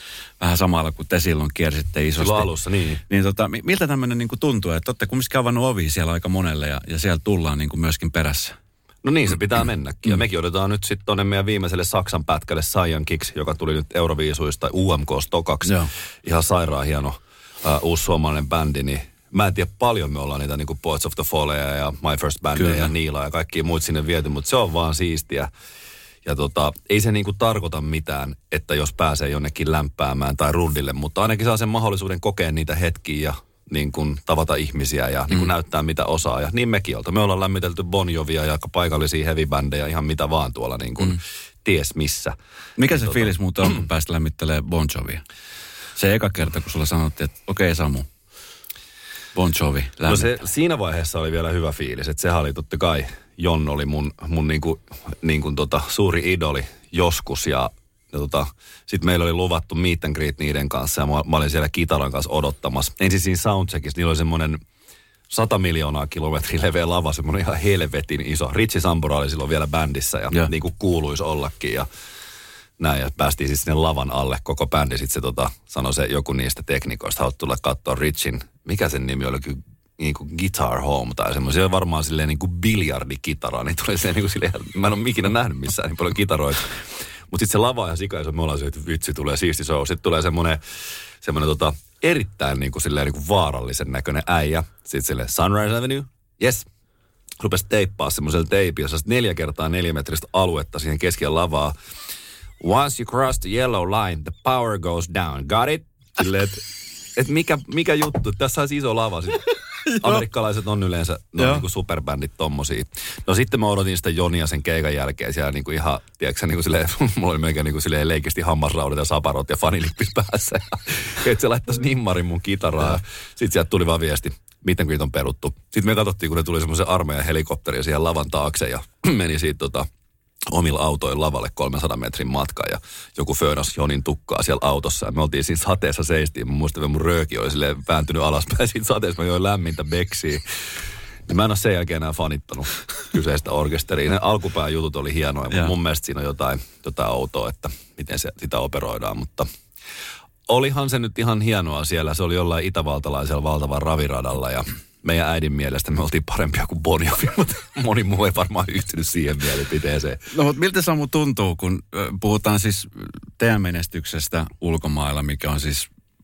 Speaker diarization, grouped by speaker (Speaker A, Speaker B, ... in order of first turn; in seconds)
Speaker A: 0.4-2.5, 3.1-8.6, 22.6-22.9, 42.8-45.2, 46.0-48.1, 49.3-50.3, 160.3-165.9
Speaker B: 2.2-3.0, 9.0-25.5, 26.2-42.3, 42.9-43.3, 50.0-64.6, 65.3-71.8, 72.8-86.8, 87.3-90.6, 91.2-96.7, 97.4-101.7, 102.6-106.6, 107.2-129.8, 130.5-140.4, 141.3-149.5, 150.5-160.2